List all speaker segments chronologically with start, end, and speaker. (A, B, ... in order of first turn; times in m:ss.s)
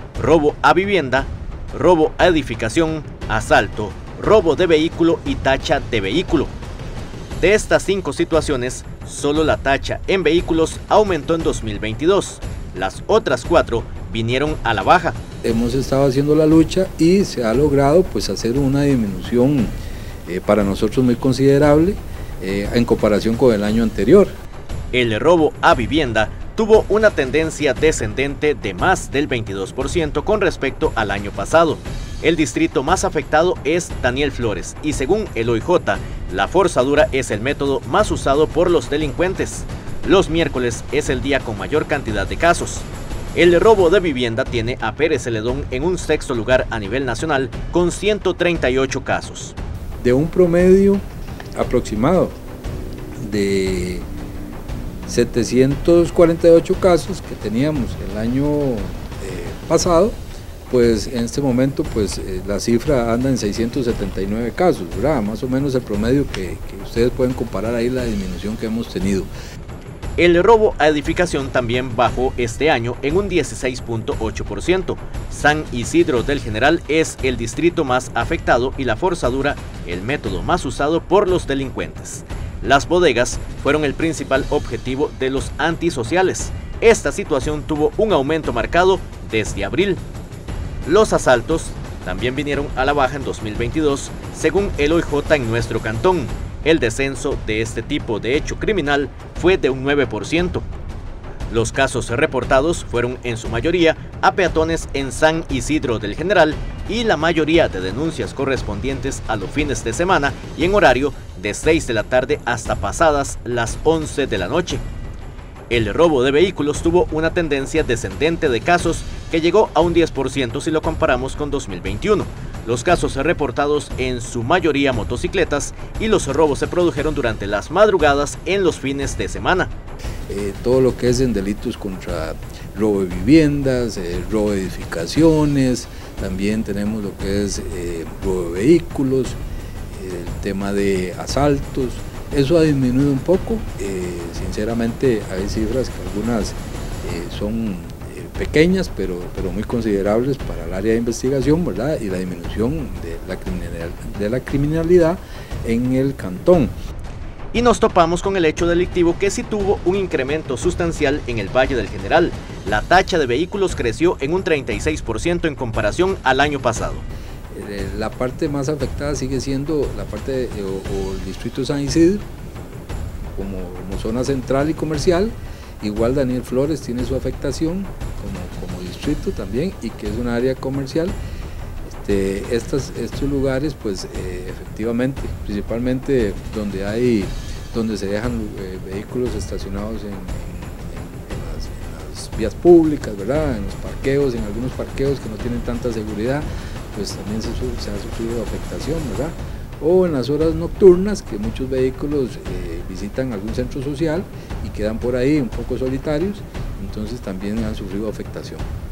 0:00.1-0:06.5 A
0:07.4-0:15.2 A
0:15.4-0:24.4 B
0:24.9-0:49.6 A
0:50.0-0:51.0 B
0:51.6-0:52.4 B
0:53.2-0:54.1 B
0:55.1-1:09.3 B
1:10.2-1:30.0 A
1:30.8-1:40.7 A
1:41.5-1:54.8 A
1:55.7-2:09.7 A
2:10.3-2:19.4 B
2:19.9-2:36.7 B
2:37.5-2:47.0 A
2:47.5-2:52.3 B
2:53.3-3:01.2 B
3:01.8-3:28.7 B